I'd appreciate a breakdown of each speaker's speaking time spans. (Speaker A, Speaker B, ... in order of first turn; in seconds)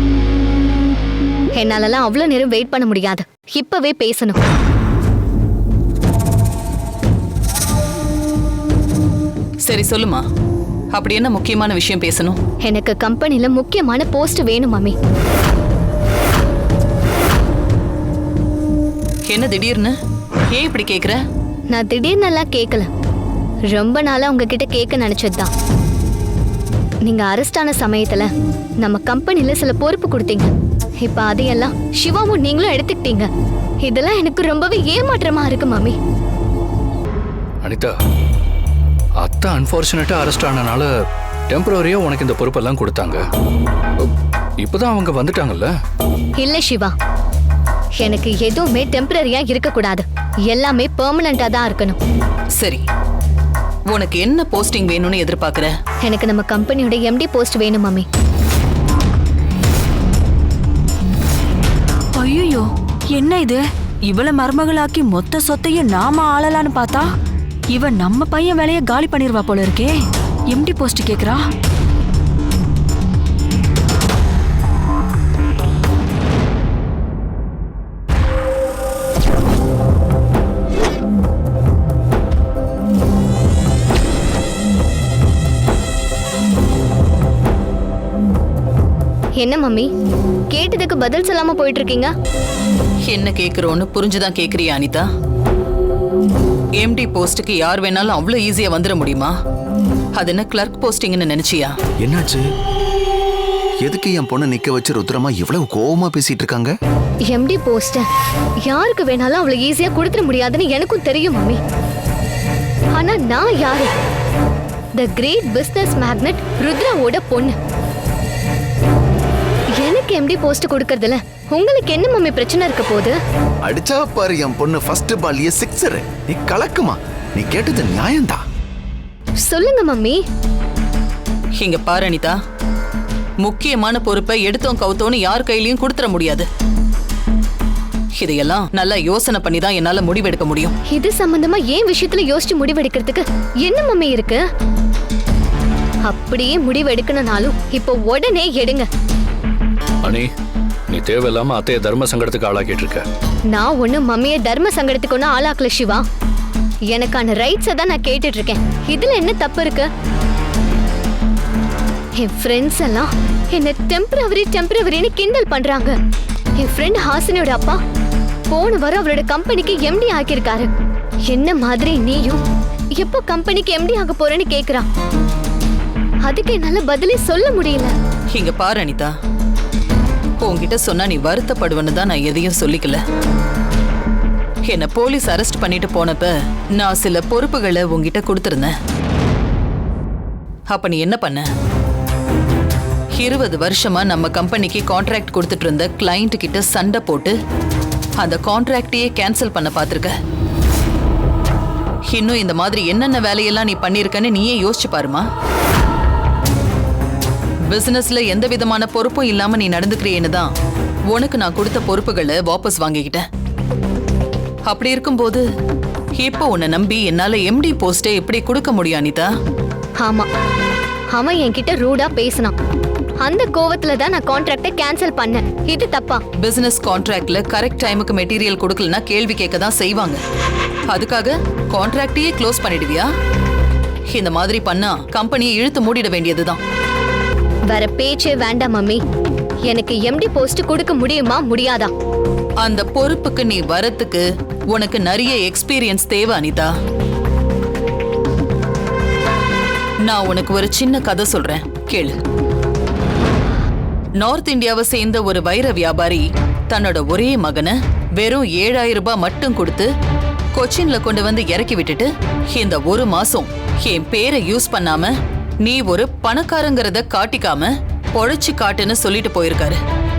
Speaker A: 1.6-4.4, 12.6-14.9, 21.7-22.9, 23.7-25.5, 27.1-33.3, 33.8-36.0, 46.4-46.9, 48.0-52.0, 56.0-58.1, 89.4-89.9, 90.5-92.1, 107.3-108.1, 108.7-111.6, 112.9-113.9, 115.0-117.6, 119.8-123.2, 129.4-130.2, 140.9-144.4, 146.1-148.9, 153.5-156.1, 156.9-159.9, 162.2-166.0, 166.6-167.8, 168.5-170.7, 171.3-172.4, 172.9-174.9, 176.2-177.9, 220.0-220.3, 221.1-222.5, 223.2-226.2, 237.7-239.0, 239.7-241.9
Speaker B: 9.7-10.2, 10.9-12.4, 19.3-19.9, 20.5-21.2, 52.6-52.8, 53.9-55.7, 93.1-95.1, 96.8-99.3, 100.2-101.8, 131.6-132.4, 133.4-136.5, 138.2-140.8, 178.3-179.1, 180.4-183.0, 184.7-188.8, 190.7-191.5, 193.2-197.4, 198.2-200.1, 202.1-205.2, 207.7-210.5, 211.1-213.2, 214.7-215.4, 216.2-219.3, 226.4-230.2, 230.9-233.1, 234.1-236.6, 242.6-246.7, 250.1-252.2, 254.2-259.9, 260.6-269.8
Speaker C: 37.6-38.0, 39.2-40.9, 41.5-43.2, 44.6-45.7, 150.0-150.3, 150.9-153.1
Speaker D: 62.2-67.1, 67.7-70.0, 70.5-71.4
Speaker E: 102.0-102.4, 103.8-106.7, 123.7-128.4